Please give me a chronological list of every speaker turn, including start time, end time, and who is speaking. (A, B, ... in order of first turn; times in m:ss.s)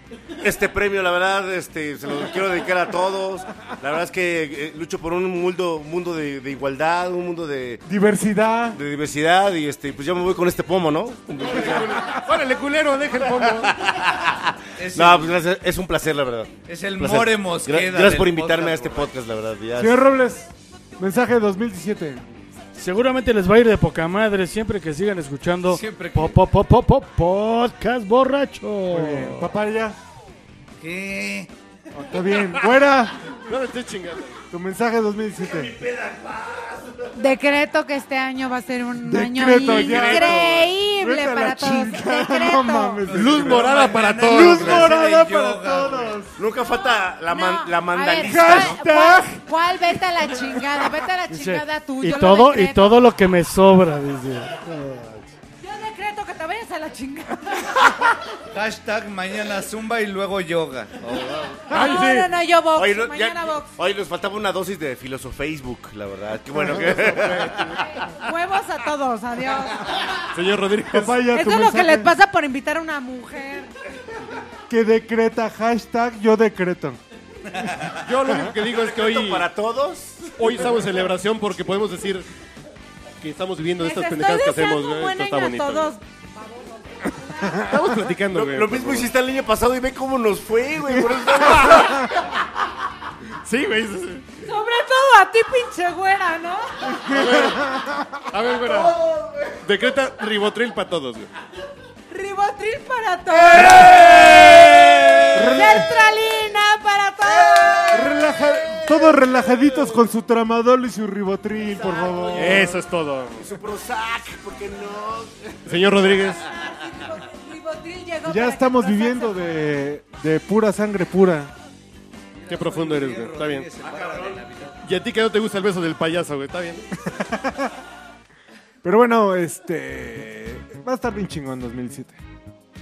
0:00.4-0:07.8 A
0:07.9-0:08.8 B
0:08.7-0:12.1 A
0:11.4-0:13.8 C
0:13.6-0:20.0 A
0:14.8-0:15.4 D
0:16.7-0:19.1 D
0:19.8-0:22.2 B
0:22.8-0:29.5 E
0:25.7-0:26.4 D
0:28.9-0:30.0 B
0:30.8-0:31.5 D
0:31.9-0:33.2 B
0:33.4-0:34.4 C
0:34.5-0:35.8 B
0:35.6-0:37.1 A
0:37.2-0:43.1 F
0:39.0-0:46.4 B
0:39.6-0:40.7 C
0:43.1-0:46.2 D
0:43.1-0:45.0 C
0:46.4-0:48.8 A
0:46.7-0:53.0 F
0:48.3-0:49.4 B
0:51.3-0:55.3 E
0:55.6-0:58.1 F
0:58.5-1:01.7 D
1:01.7-1:02.3 C
1:01.7-1:03.7 F
1:02.8-1:07.8 A
1:06.6-1:06.9 B
1:06.6-1:07.6 C
1:07.7-1:09.9 F
1:10.3-1:11.2 C
1:10.9-1:12.1 B
1:11.3-1:13.7 F
1:14.7-1:17.0 B
1:17.8-1:18.5 B
1:18.0-1:19.5 C
1:18.6-1:20.7 A
1:20.4-1:22.3 C
1:23.2-1:25.9 C
1:23.8-1:27.7 F
1:27.6-1:29.1 C
1:28.3-1:32.1 A
1:33.4-1:34.3 C
1:34.4-1:36.9 F
1:37.0-1:37.8 C
1:37.1-1:37.9 B
1:38.3-1:39.0 C
1:39.0-1:39.6 A
1:39.6-1:41.3 C
1:42.1-1:48.1 F
1:43.5-1:44.1 C
1:45.3-1:45.9 B
1:47.4-1:48.0 A
1:47.9-1:52.8 B
1:51.7-1:52.6 F
1:52.4-1:53.4 C
1:53.4-1:56.4 A
1:55.7-1:56.4 C
1:56.3-1:59.5 F
1:58.3-2:01.6 B
2:02.4-2:04.8 D
2:02.5-2:03.7 C
2:03.8-2:04.4 A
2:04.8-2:06.8 C
2:07.1-2:07.7 B
2:08.8-2:12.2 B